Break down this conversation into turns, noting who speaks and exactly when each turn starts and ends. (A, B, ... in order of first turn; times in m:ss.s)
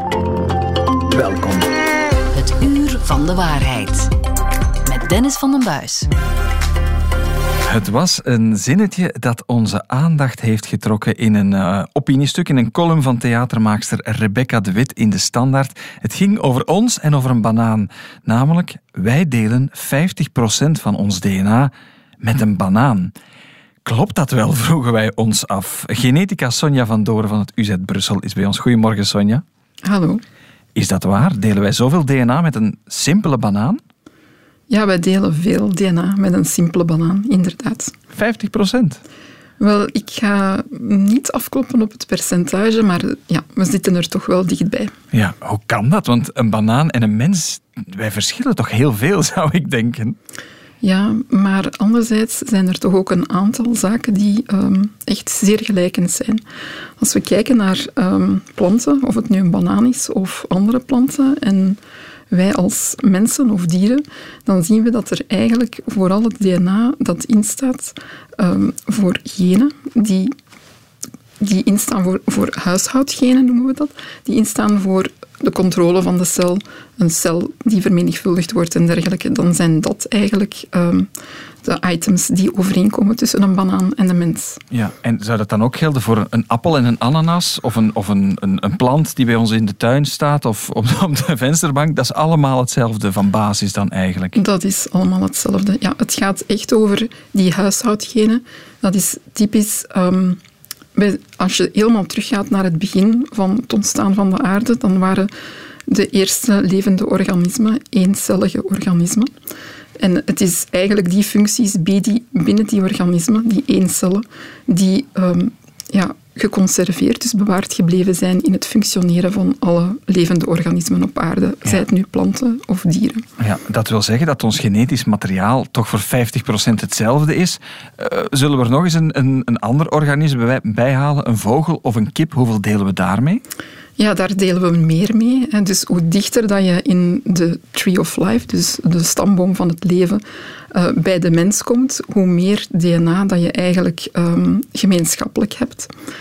0:01.1-0:01.7 A
0:02.3-0:04.1 B
0:04.8-0:06.1 B
0:07.7-0:23.1 A
0:23.8-0:29.4 A
0:29.8-0:30.2 C
0:30.7-0:33.8 A
0:34.7-0:37.9 C
0:38.1-0:39.0 A
0:39.6-0:44.9 C
0:45.1-0:50.2 A
0:50.8-0:56.4 C
0:57.0-1:01.8 C
1:02.3-1:10.3 C
1:11.4-1:21.1 C
1:21.6-1:24.6 C
1:24.7-1:34.4 A
1:34.3-1:40.4 C
1:40.9-1:45.3 C
1:45.9-1:49.3 C
1:50.0-2:03.2 C
2:03.4-2:13.4 A
2:14.0-2:25.9 C